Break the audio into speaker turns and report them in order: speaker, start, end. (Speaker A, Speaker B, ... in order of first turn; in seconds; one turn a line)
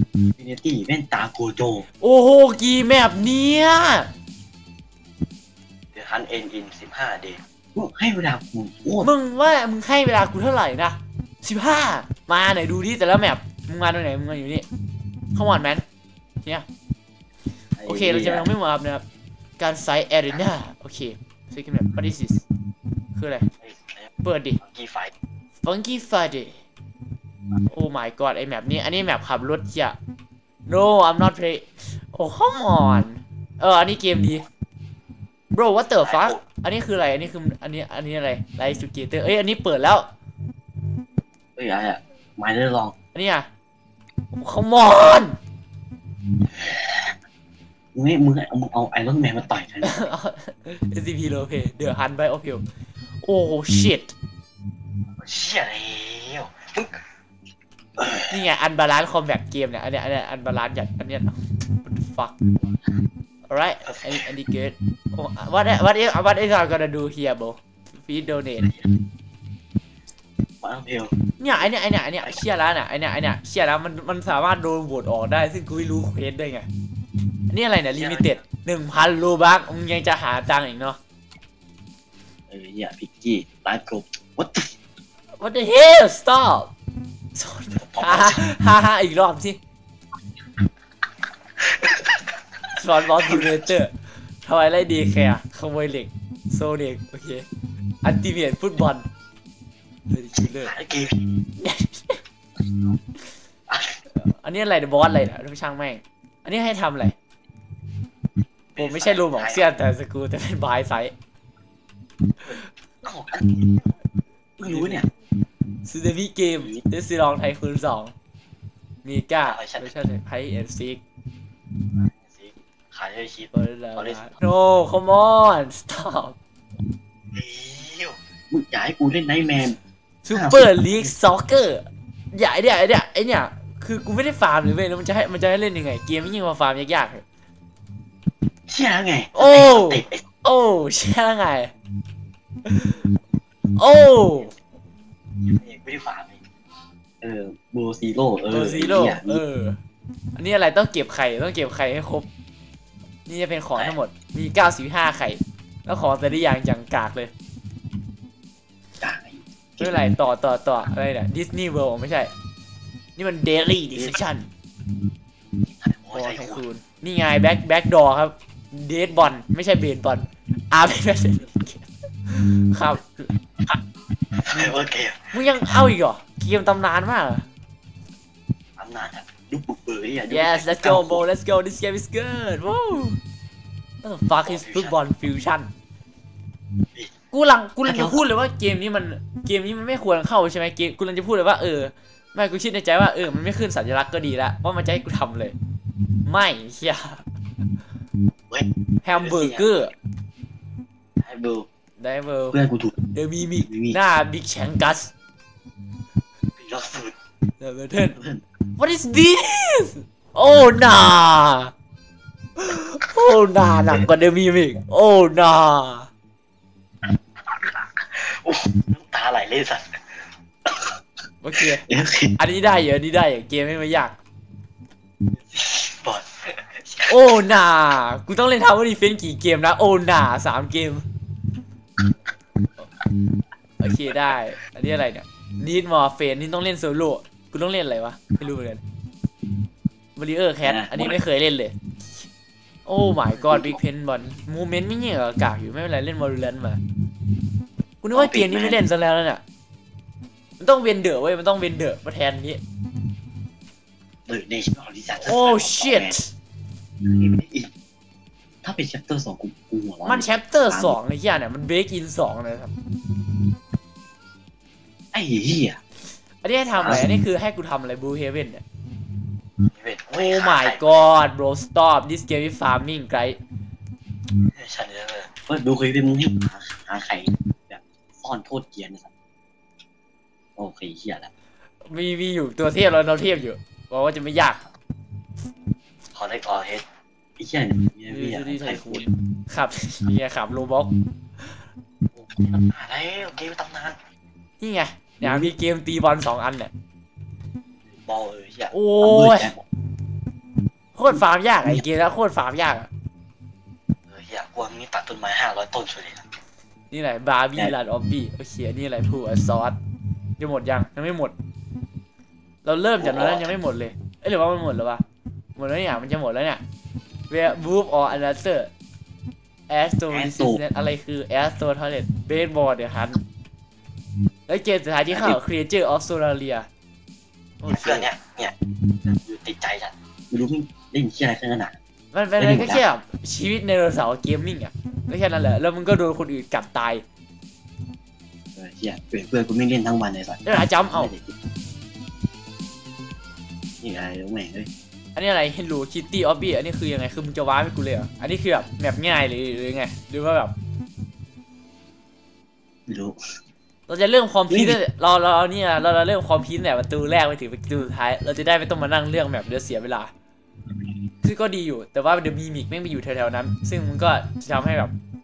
Speaker A: 0.3-1.9
Speaker B: 2.0-4.1
Speaker A: 5.9-9.1
Speaker B: 9.0-14.7
Speaker B: 15.3-15.8
Speaker A: 17.8-18.5
Speaker B: 17.8-19.0
Speaker B: 19.6-22.4
Speaker B: 23.1-23.5
Speaker A: 23.6-24.1
Speaker B: 24.2-24.6
Speaker A: 24.6-25.1
Speaker B: 25.6-26.6
Speaker B: 27.7-30.0
Speaker B: 30.7-34.5
Speaker B: 35.5-40.1
Speaker A: 36.0-36.4
Speaker A: 41.6-42.9
Speaker B: 43.1-43.5
Speaker B: 44.3-45.4
Speaker A: 46.5-47.1
Speaker A: 47.9-50.1
Speaker B: 49.8-52.6
Speaker B: 53.2-54.1
Speaker A: 55.2-57.0
Speaker A: 58.0-58.3
Speaker B: 58.3-62.3
Speaker A: 62.6-62.9
Speaker B: 63.5-68.7
Speaker A: 63.9-64.2
Speaker A: 68.6-69.0
Speaker A: 70.6-71.2
Speaker B: 71.4-76.7
Speaker B: 77.5-81.0
Speaker A: 77.9-78.3
Speaker A: 82.5-84.7
Speaker B: 85.4-86.7
Speaker B: 87.3-89.6
Speaker A: 87.7-88.5
Speaker A: 91.6-92.2
Speaker B: 92.7-93.9
Speaker B: 94.4-97.5
Speaker B: 98.0-99.0
Speaker B: 100.1-100.7
Speaker A: 100.4-101.4
Speaker B: 101.6-102.2
Speaker A: 103.7-104.0
Speaker B: 104.1-107.2
Speaker A: 108.7-109.7
Speaker B: 108.8-111.1
Speaker A: 112.5-114.0
Speaker A: 114.6-115.1
Speaker B: 114.6-115.0
Speaker B: 115.8-118.1
Speaker B: 119.0-121.0
Speaker A: 119.4-119.9
Speaker A: 121.9-124.3
Speaker B: 123.5-126.3
Speaker A: 127.3-129.8
Speaker B: 130.2-137.2
Speaker A: 130.3-131.1
Speaker A: 138.7-140.2
Speaker B: 139.3-141.7
Speaker B: 142.7-143.0
Speaker B: 143.7-144.5
Speaker A: 145.4-146.4
Speaker A: 147.2-149.4
Speaker B: 148.5-149.8
Speaker B: 150.3-152.3
Speaker B: 153.3-157.3
Speaker A: 159.0-160.2
Speaker B: 159.8-162.3
Speaker B: 163.2-164.5
Speaker A: 165.5-166.6
Speaker B: 166.1-173.3
Speaker A: 174.3-175.3
Speaker B: 175.3-177.4
Speaker A: 178.8-181.2
Speaker B: 180.3-183.2
Speaker B: 184.0-185.7
Speaker A: 184.4-184.9
Speaker B: 187.3-195.6
Speaker A: 187.8-188.2
Speaker B: 196.2-197.2
Speaker A: 198.5-199.8
Speaker B: 199.0-199.9
Speaker A: 201.2-201.7
Speaker B: 202.0-205.1
Speaker A: 202.5-203.0
Speaker A: 203.6-204.0
Speaker A: 206.5-207.1
Speaker B: 207.6-208.2
Speaker A: 208.1-208.4
Speaker B: 208.8-211.7
Speaker B: 212.6-216.1
Speaker A: 217.5-220.0
Speaker A: 220.7-221.0
Speaker B: 221.4-221.8
Speaker A: 221.6-222.3
Speaker B: 222.4-224.2
Speaker A: 225.4-227.2
Speaker B: 227.1-231.0
Speaker B: 233.8-238.8
Speaker B: 240.2-242.2
Speaker A: 240.6-241.2
Speaker B: 242.8-246.8
Speaker A: 243.3-243.8
Speaker B: 248.0-249.4
Speaker A: 248.1-248.8
Speaker B: 250.6-252.6
Speaker A: 254.3-256.1
Speaker B: 255.2-256.3
Speaker A: 257.0-257.7
Speaker A: 258.6-261.0
Speaker B: 260.0-262.7
Speaker A: 265.1-265.8
Speaker B: 266.4-268.6
Speaker A: 266.7-267.1
Speaker A: 269.6-271.1
Speaker B: 270.1-273.4
Speaker A: 274.4-279.1
Speaker A: 280.6-281.3
Speaker B: 281.9-284.6
Speaker A: 286.1-286.8
Speaker A: 287.4-289.1
Speaker B: 288.1-290.9
Speaker A: 292.1-294.0
Speaker B: 294.6-296.7
Speaker A: 295.2-295.5
Speaker A: 297.9-299.6
Speaker B: 298.7-299.5
Speaker B: 300.9-302.9
Speaker A: 304.1-306.3
Speaker B: 306.9-309.8
Speaker B: 310.4-311.3
Speaker B: 312.6-315.0
Speaker A: 313.0-313.5
Speaker B: 315.6-316.6
Speaker B: 317.3-318.7
Speaker B: 319.7-323.2
Speaker A: 320.1-320.6
Speaker B: 324.5-326.7
Speaker A: 325.1-325.4
Speaker B: 327.6-328.1
Speaker A: 327.7-331.7
Speaker B: 332.1-337.0
Speaker A: 332.4-332.8
Speaker A: 338.6-341.4
Speaker B: 340.4-341.1
Speaker A: 343.8-344.7
Speaker B: 345.1-350.5
Speaker A: 352.9-353.2
Speaker B: 353.9-360.1
Speaker A: 354.5-354.8
Speaker B: 361.2-364.9